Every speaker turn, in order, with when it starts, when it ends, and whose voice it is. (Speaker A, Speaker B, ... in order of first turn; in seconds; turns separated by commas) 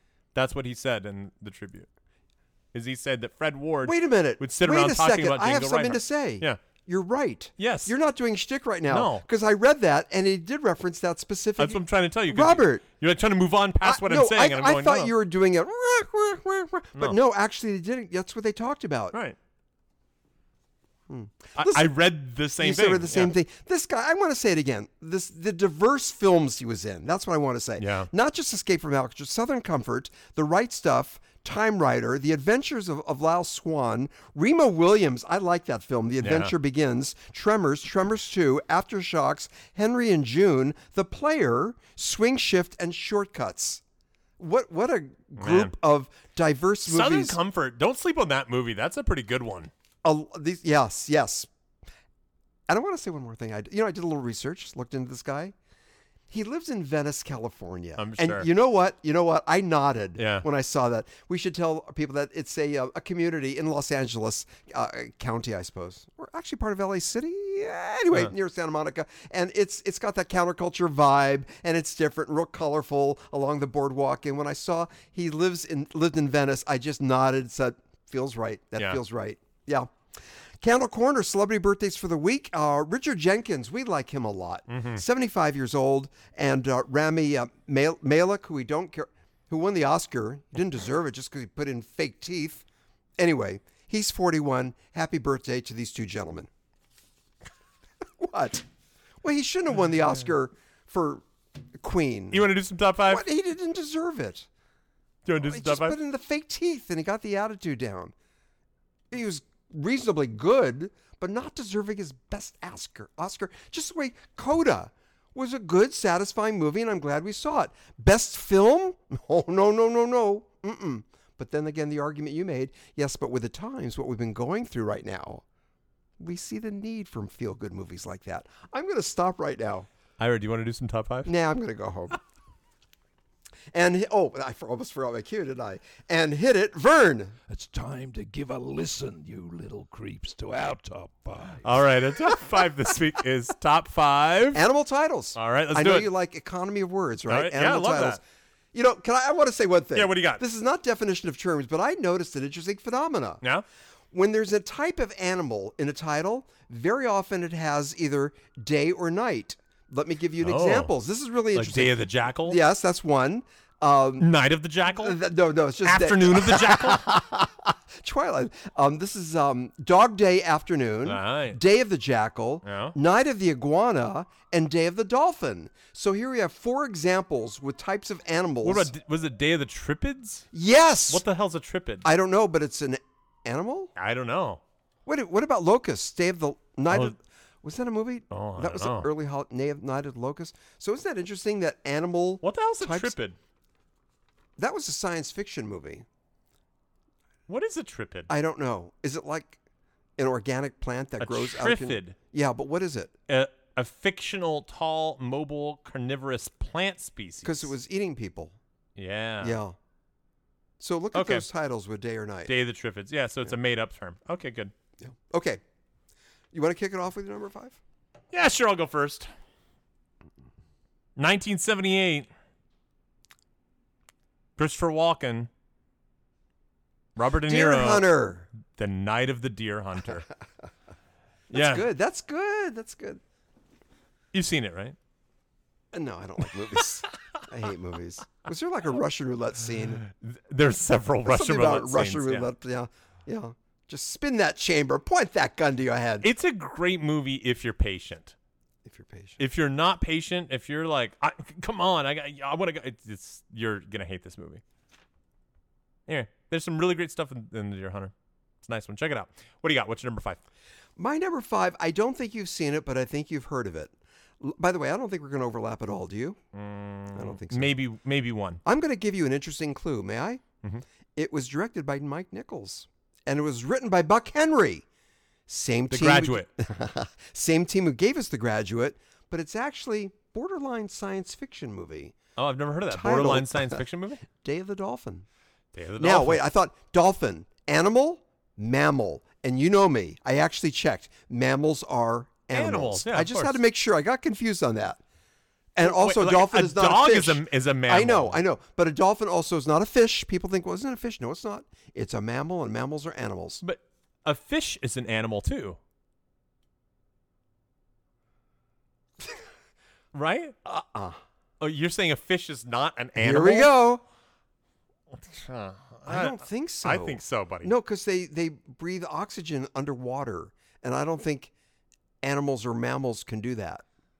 Speaker A: 0.3-1.9, Speaker A: 2.7-6.6, Speaker B: 3.8-12.8, Speaker A: 7.6-7.9, Speaker A: 8.9-9.2, Speaker A: 11.6-15.1, Speaker B: 13.8-19.1, Speaker B: 21.1-22.0, Speaker A: 21.6-23.3, Speaker B: 22.6-43.8, Speaker A: 27.8-28.1, Speaker A: 36.2-36.5, Speaker B: 44.4-47.4, Speaker A: 45.4-45.7, Speaker A: 46.9-49.7, Speaker B: 50.0-51.5, Speaker B: 52.7-55.5, Speaker B: 56.3-79.9, Speaker A: 58.0-58.5, Speaker A: 60.2-60.5, Speaker B: 80.6-92.6, Speaker A: 84.7-85.0, Speaker B: 93.2-96.5, Speaker B: 98.2-98.6, Speaker B: 99.2-101.2, Speaker B: 101.7-102.5, Speaker A: 102.3-103.2, Speaker B: 103.0-104.5, Speaker A: 105.2-106.0, Speaker B: 105.4-108.1, Speaker B: 109.1-125.4, Speaker B: 126.2-129.9, Speaker A: 130.2-131.3, Speaker B: 131.2-132.2, Speaker B: 133.7-137.3, Speaker C: 137.5-141.8, Speaker A: 141.6-144.6, Speaker B: 144.5-148.2, Speaker A: 145.3-146.1, Speaker A: 147.3-148.2, Speaker B: 148.7-153.4, Speaker A: 149.9-150.4, Speaker B: 154.1-164.3, Speaker A: 160.4-160.9, Speaker A: 161.5-162.6, Speaker A: 164.2-165.2, Speaker B: 164.9-178.9, Speaker A: 165.8-167.0, Speaker A: 171.0-171.6, Speaker A: 172.6-172.9, Speaker A: 178.6-180.5, Speaker B: 180.5-181.2, Speaker A: 181.1-182.1, Speaker B: 182.0-183.9, Speaker A: 183.9-184.6, Speaker B: 185.1-193.1, Speaker A: 186.9-187.1, Speaker A: 188.3-189.1, Speaker A: 192.4-193.3, Speaker B: 194.6-196.1, Speaker A: 197.5-198.3, Speaker B: 198.3-199.6, Speaker B: 200.2-203.1, Speaker A: 201.2-202.2, Speaker A: 203.3-207.7, Speaker B: 207.4-208.6, Speaker A: 208.9-209.6, Speaker B: 209.4-209.7, Speaker B: 210.8-212.5, Speaker A: 211.1-211.4, Speaker A: 212.5-214.7, Speaker B: 215.0-215.6, Speaker B: 216.5-217.8, Speaker A: 218.3-219.3, Speaker A: 221.2-222.3, Speaker A: 224.6-225.5, Speaker A: 227.2-230.3, Speaker B: 227.4-228.5, Speaker B: 231.5-233.2, Speaker A: 231.5-231.9, Speaker A: 234.3-234.9, Speaker B: 235.9-240.0, Speaker A: 240.0-242.5, Speaker B: 241.2-246.3, Speaker A: 246.2-248.3, Speaker B: 248.8-249.4, Speaker A: 249.4-254.6, Speaker A: 256.1-260.4, Speaker B: 261.0-266.4, Speaker A: 266.5-268.6, Speaker B: 267.1-267.8, Speaker B: 268.6-270.4, Speaker B: 271.1-274.8, Speaker B: 275.5-282.1, Speaker A: 275.9-276.5, Speaker A: 282.4-284.2, Speaker B: 282.9-285.2, Speaker A: 285.7-286.4, Speaker B: 286.0-295.0, Speaker A: 292.5-293.6, Speaker B: 295.8-303.6, Speaker A: 295.8-298.4, Speaker A: 303.6-305.8, Speaker A: 310.1-310.6, Speaker B: 310.6-311.2, Speaker A: 311.6-313.7, Speaker B: 313.2-314.0, Speaker A: 315.1-317.7, Speaker B: 316.1-321.5, Speaker B: 322.2-323.8